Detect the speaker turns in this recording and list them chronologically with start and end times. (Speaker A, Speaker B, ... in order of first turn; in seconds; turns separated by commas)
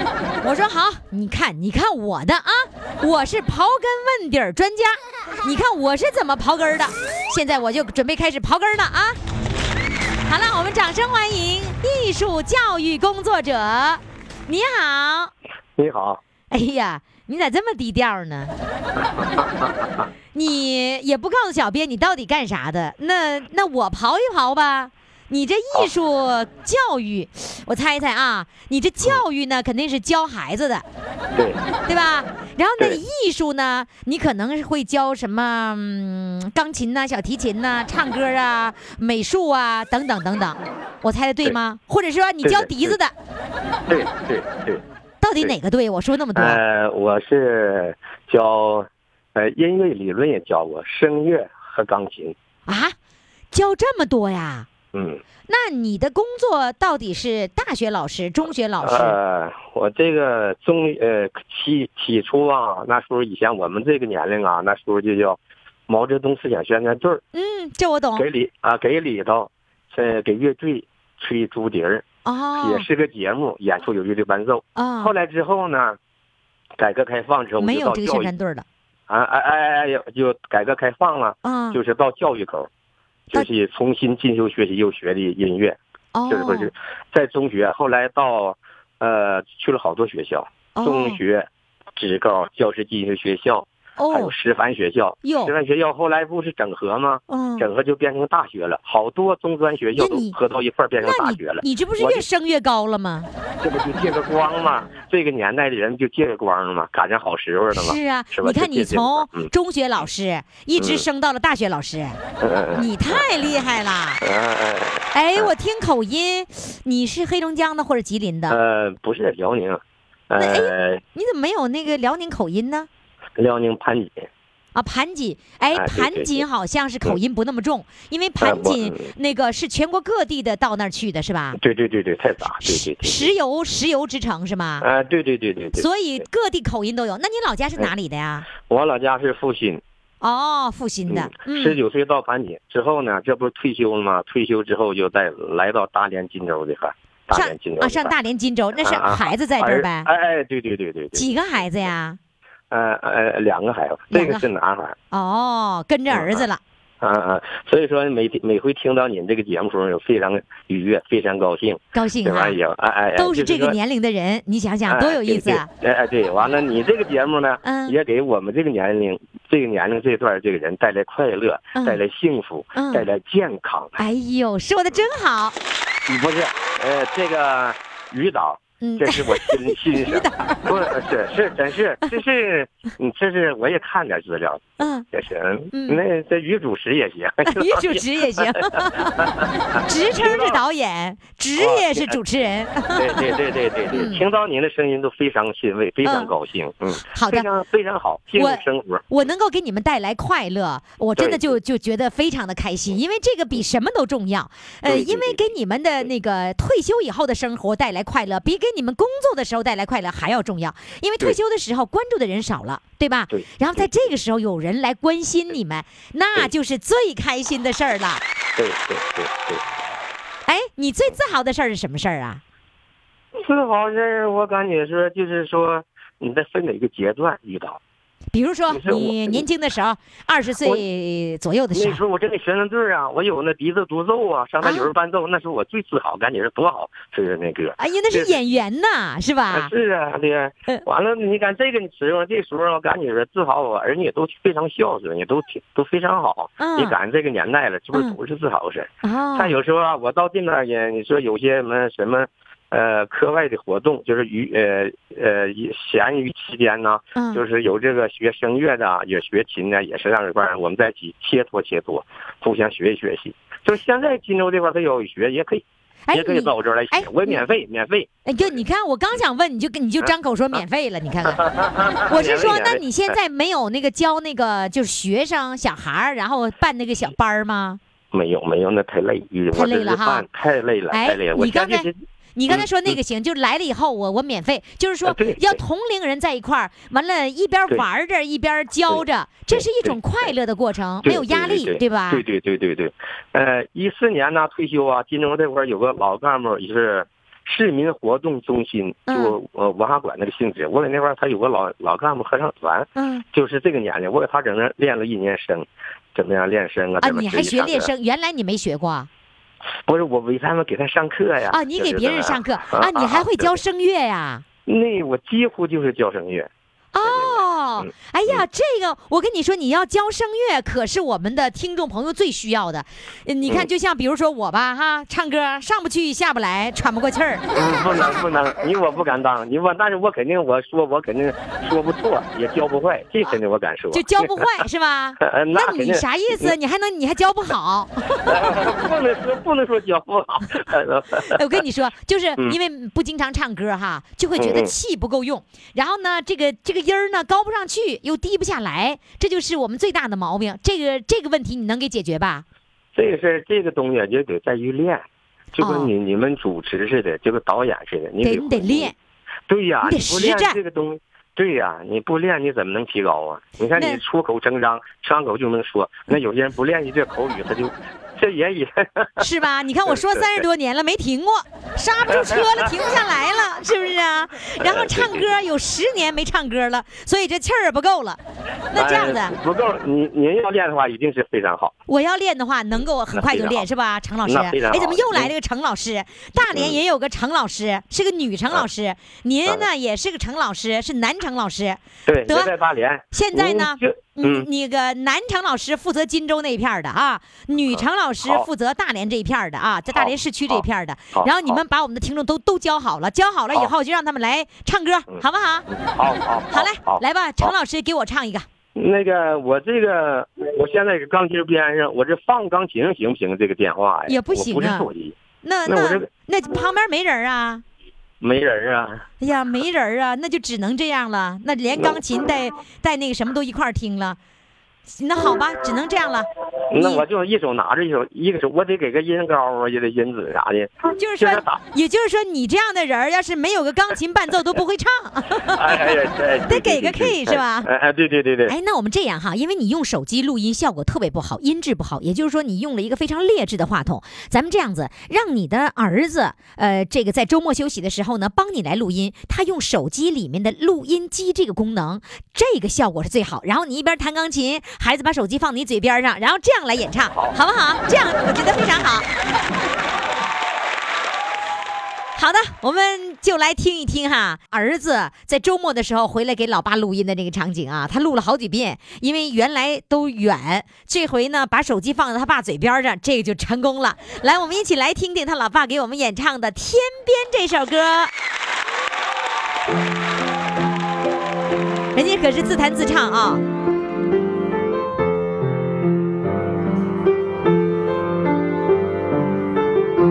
Speaker A: 0.4-9.2, Speaker A: 10.3-15.3, Speaker B: 15.8-16.2, Speaker A: 16.5-18.5, Speaker B: 19.0-20.0, Speaker A: 20.3-30.8, Speaker B: 31.4-31.6, Speaker A: 31.9-43.1, Speaker B: 42.4-43.0, Speaker B: 43.9-44.8, Speaker A: 45.2-46.6, Speaker B: 46.3-52.3, Speaker A: 52.7-52.9, Speaker A: 53.5-54.7, Speaker B: 54.9-55.2, Speaker A: 55.5-59.2, Speaker B: 58.8-67.2, Speaker A: 67.3-68.2, Speaker B: 68.2-76.0, Speaker A: 72.2-72.8, Speaker A: 74.8-75.1, Speaker B: 76.8-78.3, Speaker A: 77.6-78.6, Speaker B: 79.1-82.7, Speaker A: 81.4-81.8, Speaker B: 83.3-85.8, Speaker A: 86.1-86.7, Speaker B: 86.3-102.2, Speaker A: 90.7-91.2, Speaker A: 94.0-94.3, Speaker A: 95.2-95.5, Speaker A: 97.3-97.7, Speaker A: 100.0-100.3, Speaker A: 101.0-103.3, Speaker B: 103.6-109.5, Speaker A: 107.7-112.2, Speaker B: 110.8-111.0, Speaker B: 112.4-113.2, Speaker A: 112.7-114.2, Speaker B: 114.2-115.5, Speaker A: 115.1-118.6, Speaker B: 118.5-121.0, Speaker A: 120.4-122.9, Speaker B: 123.4-124.3, Speaker A: 124.7-131.6, Speaker B: 125.7-126.4, Speaker B: 128.4-129.1, Speaker B: 131.5-133.3, Speaker A: 132.6-134.8, Speaker B: 134.8-135.9, Speaker A: 135.8-138.5, Speaker B: 138.6-139.8, Speaker A: 140.2-141.8, Speaker B: 141.1-148.1, Speaker A: 147.3-150.1, Speaker B: 148.8-151.3, Speaker A: 151.1-152.2, Speaker B: 152.7-154.9, Speaker A: 154.1-154.4, Speaker A: 155.1-156.6, Speaker B: 156.1-156.4, Speaker B: 157.0-163.8, Speaker A: 161.9-162.6, Speaker A: 163.2-165.7, Speaker B: 164.9-174.0, Speaker A: 167.6-167.9, Speaker A: 172.7-173.1, Speaker A: 174.0-175.5, Speaker B: 176.1-188.6, Speaker A: 178.8-180.9, Speaker A: 184.8-185.1, Speaker A: 185.7-186.0, Speaker A: 187.4-189.3, Speaker B: 189.2-189.5, Speaker A: 189.8-193.3, Speaker B: 190.1-190.6, Speaker B: 191.6-192.2, Speaker B: 192.9-199.0, Speaker A: 193.9-194.2, Speaker A: 196.0-196.3, Speaker A: 197.1-197.4, Speaker A: 198.3-218.2, Speaker B: 201.2-201.6, Speaker B: 204.8-205.4, Speaker B: 213.3-214.1, Speaker B: 218.6-219.6, Speaker A: 220.4-222.4, Speaker B: 223.4-227.8, Speaker A: 228.3-232.0, Speaker B: 228.7-229.4, Speaker B: 231.7-238.4, Speaker A: 234.6-234.9, Speaker A: 237.8-239.7, Speaker B: 239.5-268.6, Speaker A: 246.6-246.9, Speaker A: 249.0-249.5, Speaker A: 257.1-257.4, Speaker A: 266.1-267.4, Speaker A: 268.2-271.4, Speaker B: 271.3-272.8, Speaker A: 272.1-277.8, Speaker B: 278.1-281.9, Speaker A: 279.5-280.2, Speaker A: 280.9-292.2, Speaker B: 282.5-282.9, Speaker B: 285.0-285.6, Speaker B: 288.9-290.3, Speaker B: 291.0-307.9, Speaker A: 299.1-299.3, Speaker A: 302.9-303.2, Speaker A: 307.0-309.1, Speaker B: 309.9-313.6, Speaker A: 311.5-314.4, Speaker B: 314.6-316.5, Speaker A: 316.9-327.4, Speaker B: 317.0-318.4, Speaker B: 327.5-334.5, Speaker A: 333.9-338.6, Speaker B: 335.2-336.5, Speaker B: 338.2-341.6, Speaker A: 341.2-352.4, Speaker B: 344.4-344.7, Speaker B: 352.9-358.9, Speaker A: 355.6-355.9, Speaker A: 358.2-358.9, Speaker B: 359.5-369.2, Speaker A: 359.8-360.6, Speaker A: 363.7-364.0, Speaker A: 369.2-378.2, Speaker B: 369.9-370.4, Speaker B: 372.1-372.7, Speaker B: 374.6-375.3, Speaker A: 378.7-379.3, Speaker B: 378.7-381.7, Speaker A: 381.9-392.5, Speaker B: 383.1-383.6, Speaker B: 384.2-385.3, Speaker B: 386.4-386.8, Speaker B: 392.1-394.5, Speaker A: 393.1-405.7, Speaker B: 397.7-398.4, Speaker B: 399.9-401.6, Speaker B: 405.1-407.5, Speaker A: 406.5-408.4, Speaker B: 408.8-416.1, Speaker A: 414.1-414.9, Speaker A: 415.4-417.6, Speaker B: 418.2-419.0, Speaker A: 419.2-424.2, Speaker B: 421.8-422.0, Speaker A: 424.9-427.0, Speaker B: 426.7-431.6, Speaker A: 431.0-435.9, Speaker B: 435.4-438.5, Speaker A: 436.4-437.7, Speaker A: 438.5-459.1, Speaker B: 457.1-457.4, Speaker A: 462.1-478.1, Speaker A: 481.9-483.4